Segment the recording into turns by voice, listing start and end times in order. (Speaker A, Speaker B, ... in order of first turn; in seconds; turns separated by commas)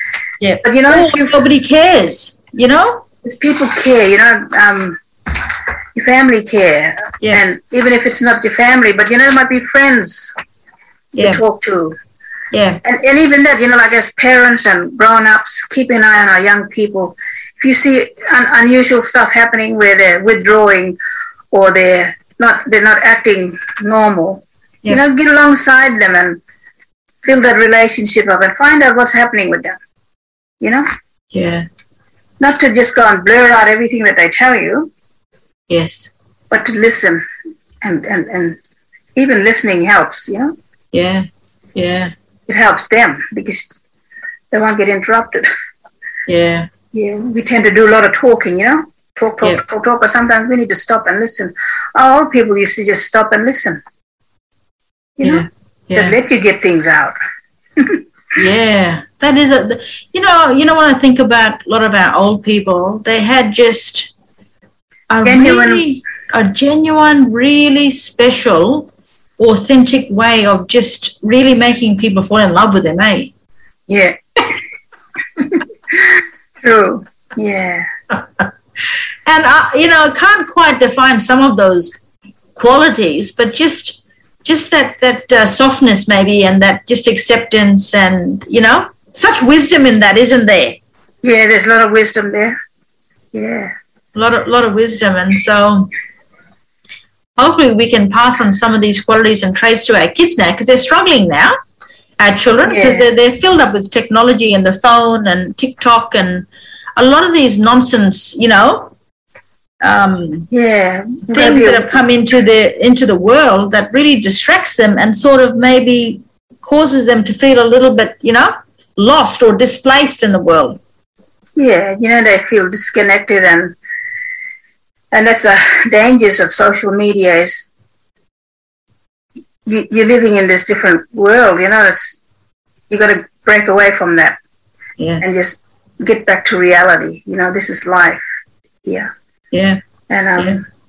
Speaker A: 0.4-3.0, Speaker B: 0.6-1.3, Speaker B: 3.2-5.0, Speaker B: 6.0-10.3, Speaker B: 11.1-11.9, Speaker A: 11.2-11.4, Speaker A: 12.5-12.8, Speaker B: 12.8-20.9, Speaker B: 21.5-26.4, Speaker B: 27.2-29.8, Speaker A: 31.3-31.6, Speaker B: 32.4-34.9, Speaker A: 35.7-36.1, Speaker B: 36.5-37.2, Speaker B: 37.8-38.6, Speaker B: 39.1-40.5, Speaker A: 40.9-42.1, Speaker B: 42.5-43.8, Speaker B: 44.5-45.5, Speaker A: 46.3-46.7, Speaker B: 46.9-53.8, Speaker B: 55.2-57.1, Speaker A: 55.2-56.1, Speaker A: 58.4-64.1, Speaker A: 65.1-73.3, Speaker B: 65.2-65.8, Speaker B: 73.9-74.2, Speaker B: 76.0-77.9, Speaker A: 78.1-78.4, Speaker A: 79.2-82.0, Speaker A: 82.5-90.8, Speaker B: 91.2-92.6, Speaker B: 93.3-93.7, Speaker A: 94.1-95.9, Speaker A: 97.4-101.5, Speaker A: 102.2-108.9, Speaker B: 102.7-103.0, Speaker A: 109.8-110.5, Speaker B: 110.5-112.0, Speaker A: 111.3-120.8, Speaker B: 121.6-123.8, Speaker B: 125.1-127.7, Speaker B: 129.7-132.2, Speaker B: 132.9-134.4, Speaker A: 135.0-135.2, Speaker B: 135.2-138.2, Speaker B: 138.8-139.1, Speaker A: 139.5-139.8, Speaker B: 140.1-140.6